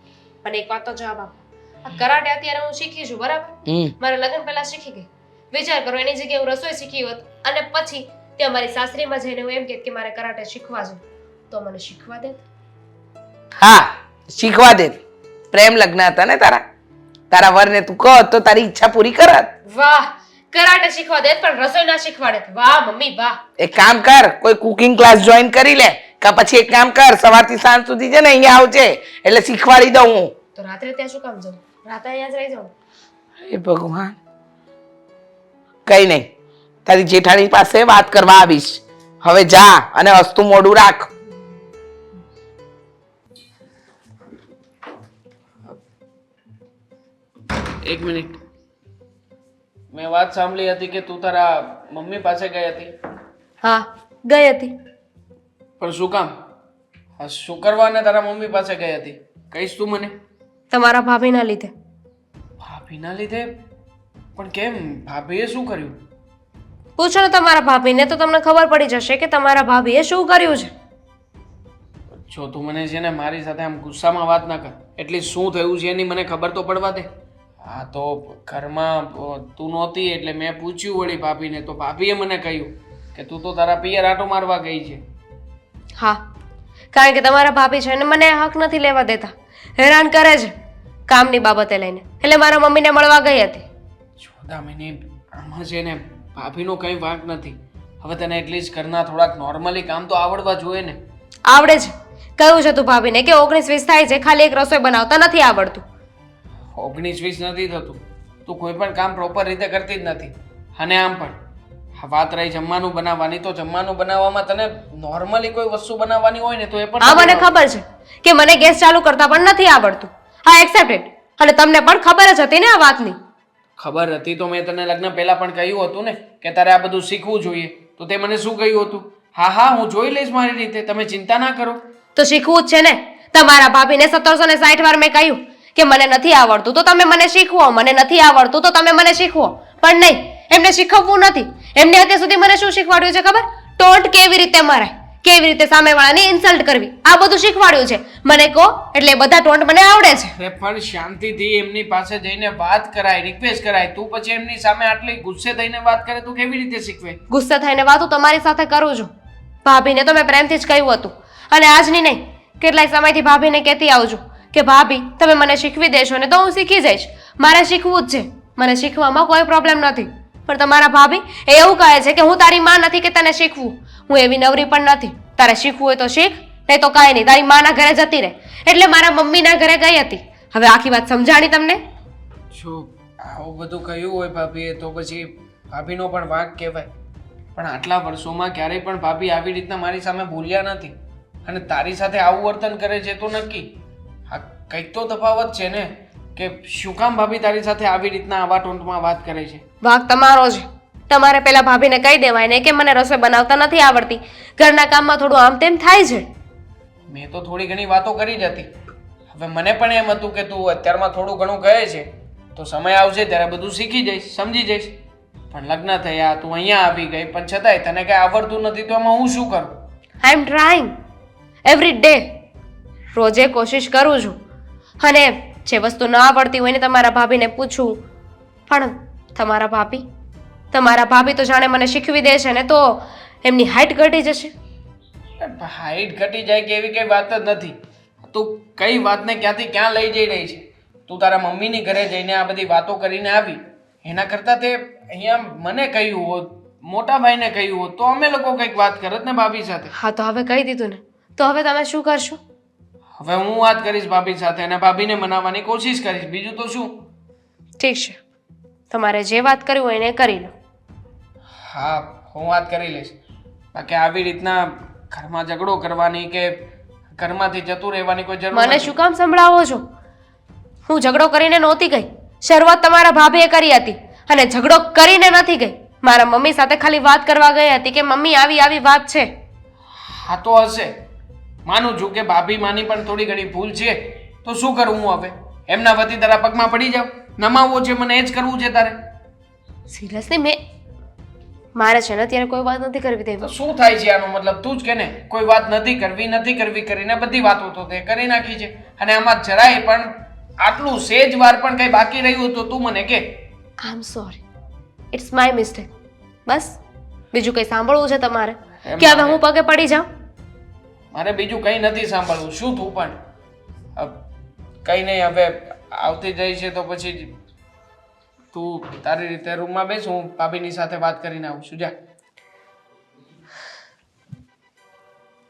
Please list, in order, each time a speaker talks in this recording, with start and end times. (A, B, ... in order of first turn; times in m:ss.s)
0:00.4-0:12.4 A
0:03.7-0:04.0 B
0:13.6-0:15.0 B
0:15.5-0:16.6 B
0:17.3-0:19.5 B
0:19.7-0:23.4 A
0:23.6-0:30.3 B
0:30.6-0:32.7 A
0:33.4-0:34.2 B
0:35.9-0:36.3 B
0:36.9-0:41.1 B
0:47.8-0:48.4 C
0:49.9-0:52.9 C
0:53.6-0:54.7 A
0:55.8-0:56.4 C
0:57.2-1:00.1 C
1:00.7-1:01.7 A
1:02.6-1:03.6 C
1:04.4-1:06.0 C
1:07.0-1:10.7 A
1:12.3-1:17.1 C
1:17.6-1:25.0 C
1:26.9-1:30.5 A
1:31.1-1:33.6 A
1:34.2-1:41.0 C
1:41.5-1:45.8 A
1:46.7-1:51.4 C
1:52.0-1:57.5 C
1:57.0-2:03.2 A
2:03.8-2:11.8 C
2:12.2-2:30.3 A
2:30.4-2:37.2 C
2:37.3-2:39.1 A
2:39.6-3:01.8 A
3:02.5-3:06.9 C
3:07.6-3:13.8 C
3:14.3-3:19.6 C
3:19.8-3:26.3 A
3:27.1-3:28.7 C
3:29.3-3:35.0 C
3:35.5-3:39.7 C
3:40.2-3:40.9 A
3:41.6-3:42.4 A
3:43.2-3:44.4 A
3:45.0-3:48.0 A
3:48.7-3:50.1 A
3:50.7-3:54.5 A
3:55.4-3:57.8 C
3:58.3-4:09.9 C
4:10.0-4:12.4 A
4:13.2-4:17.0 C
4:17.8-4:18.2 A
4:18.9-4:20.5 A
4:21.6-4:23.2 C
4:23.7-4:26.7 C
4:27.2-4:28.9 C
4:28.5-4:29.8 A
4:30.9-4:39.3 A
4:40.0-4:40.9 C
4:41.7-4:49.1 C
4:49.9-4:50.6 A
4:51.8-4:53.5 A
4:53.4-5:03.4 C
5:03.8-5:04.4 A
5:05.1-5:05.9 A
5:06.5-5:06.8 A
5:07.3-5:10.1 A
5:08.8-5:09.4 C
5:11.1-5:13.2 C
5:14.0-5:14.3 C
5:14.8-5:17.3 C
5:18.5-5:21.9 C